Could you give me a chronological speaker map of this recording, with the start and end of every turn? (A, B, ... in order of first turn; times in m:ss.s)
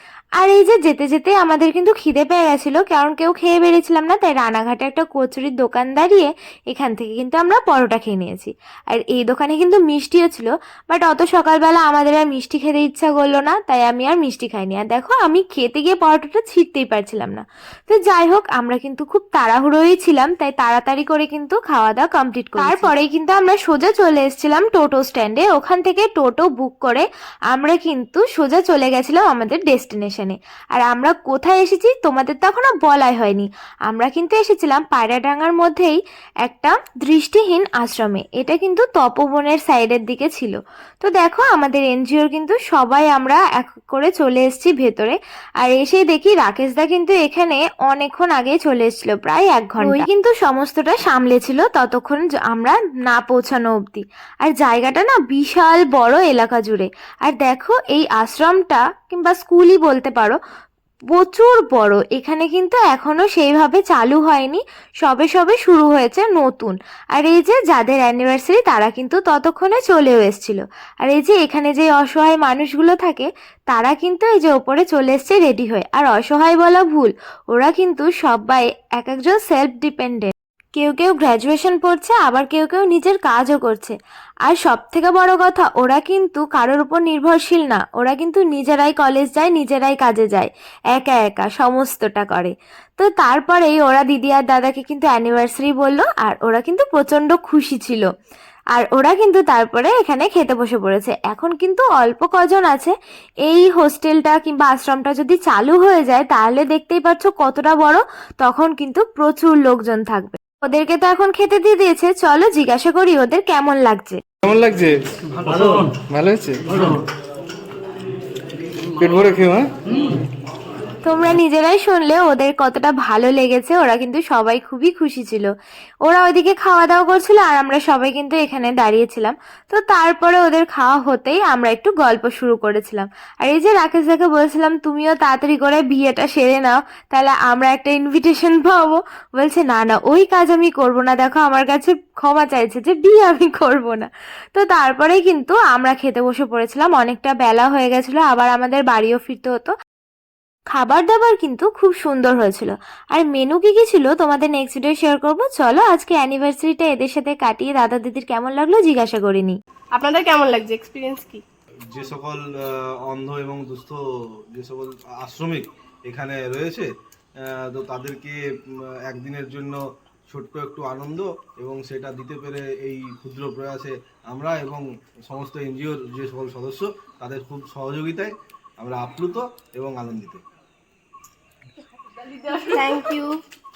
0:00.4-1:00.4 A
0:22.6-0:22.9 B
1:01.1-1:38.1 A
1:38.7-1:42.9 A
1:43.5-1:54.2 A
1:54.4-1:57.0 C
1:59.0-1:59.7 C
2:01.0-2:05.5 A
2:06.0-2:29.7 A
2:30.7-2:39.6 A
2:40.0-2:41.4 B
2:41.9-2:44.0 D
2:44.5-3:00.4 D
3:02.4-3:03.4 B